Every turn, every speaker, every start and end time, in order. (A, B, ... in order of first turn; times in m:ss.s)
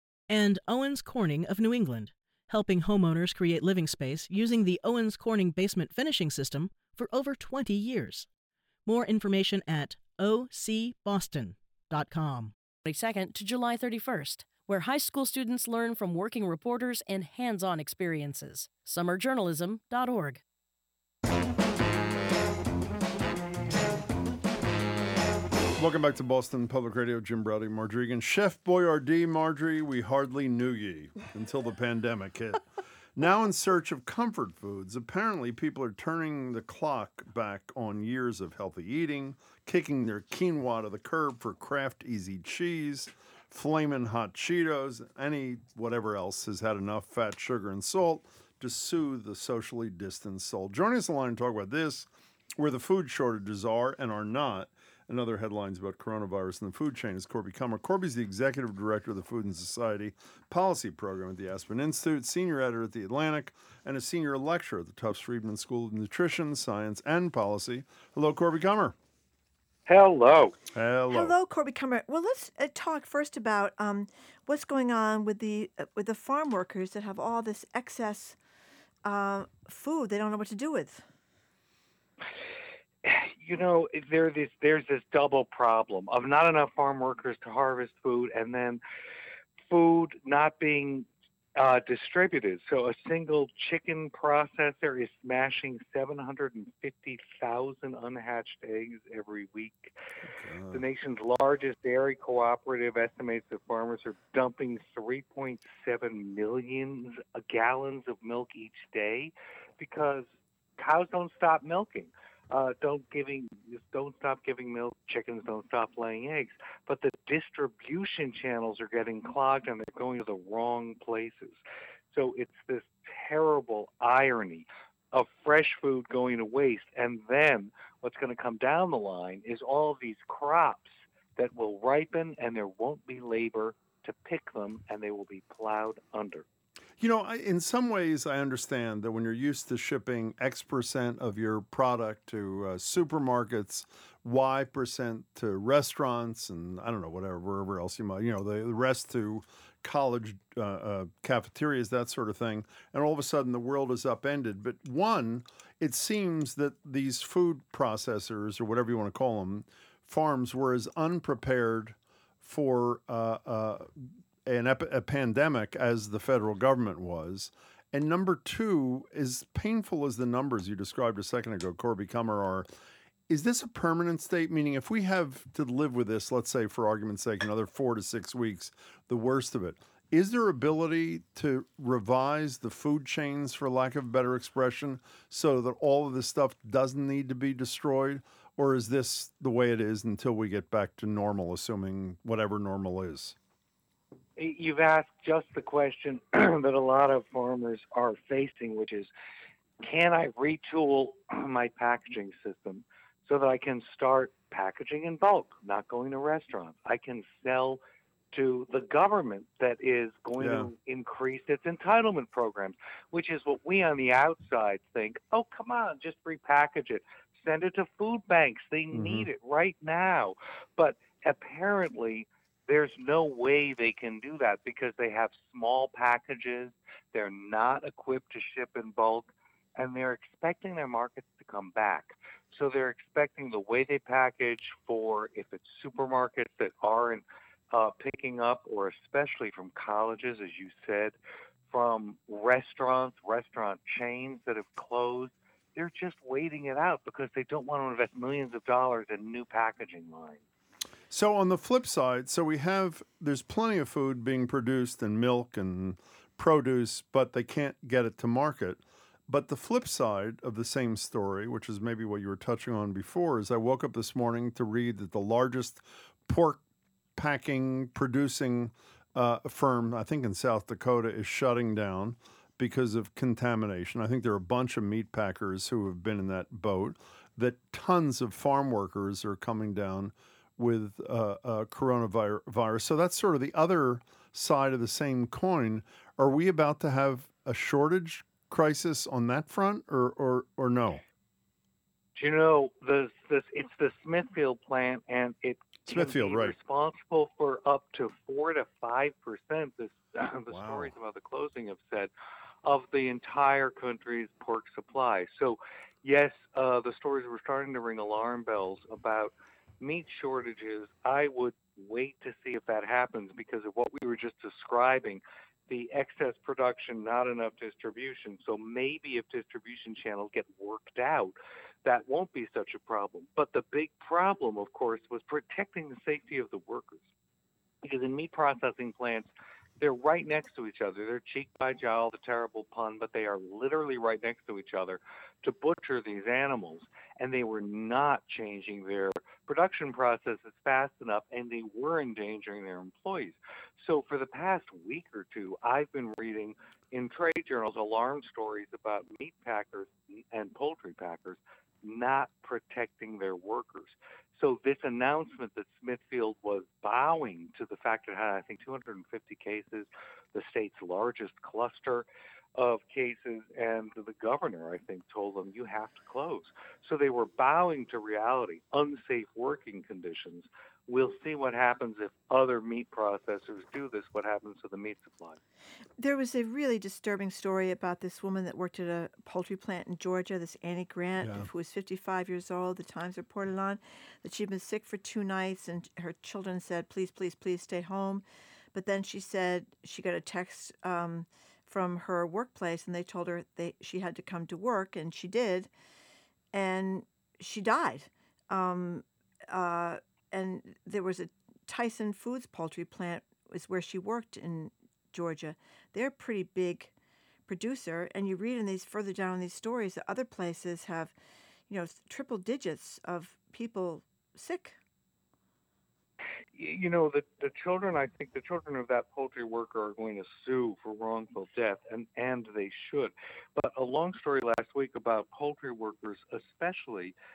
0:00.3-0:08.3 A
0:08.9-0:12.6 A
0:12.8-0:20.4 B
0:25.8-0:32.6 C
0:33.2-1:09.0 C
1:09.9-1:10.6 D
1:10.8-1:11.4 C
1:11.1-1:18.4 E
1:19.0-1:21.0 E
1:23.0-1:28.8 D
1:29.7-1:39.9 D
1:40.2-1:40.8 C
1:40.7-1:50.2 D
1:50.8-2:01.6 D
2:02.1-2:16.5 D
2:17.0-2:52.7 C
2:53.3-3:13.4 C
3:14.4-3:19.1 D
3:19.8-3:27.8 D
3:28.3-4:01.2 D
3:30.4-3:30.7 C
3:38.9-3:39.3 C
4:01.7-4:10.4 D
4:11.1-4:26.6 C
4:27.1-4:51.0 C
4:52.2-5:02.1 D
4:55.8-4:56.5 C
5:00.5-5:00.9 C
5:02.6-5:27.0 D
5:27.8-6:15.4 D
6:16.0-6:35.7 E
6:21.2-6:21.5 C
6:36.5-6:46.9 E
6:47.5-6:51.1 E
6:51.7-6:54.8 E
6:56.5-7:07.1 D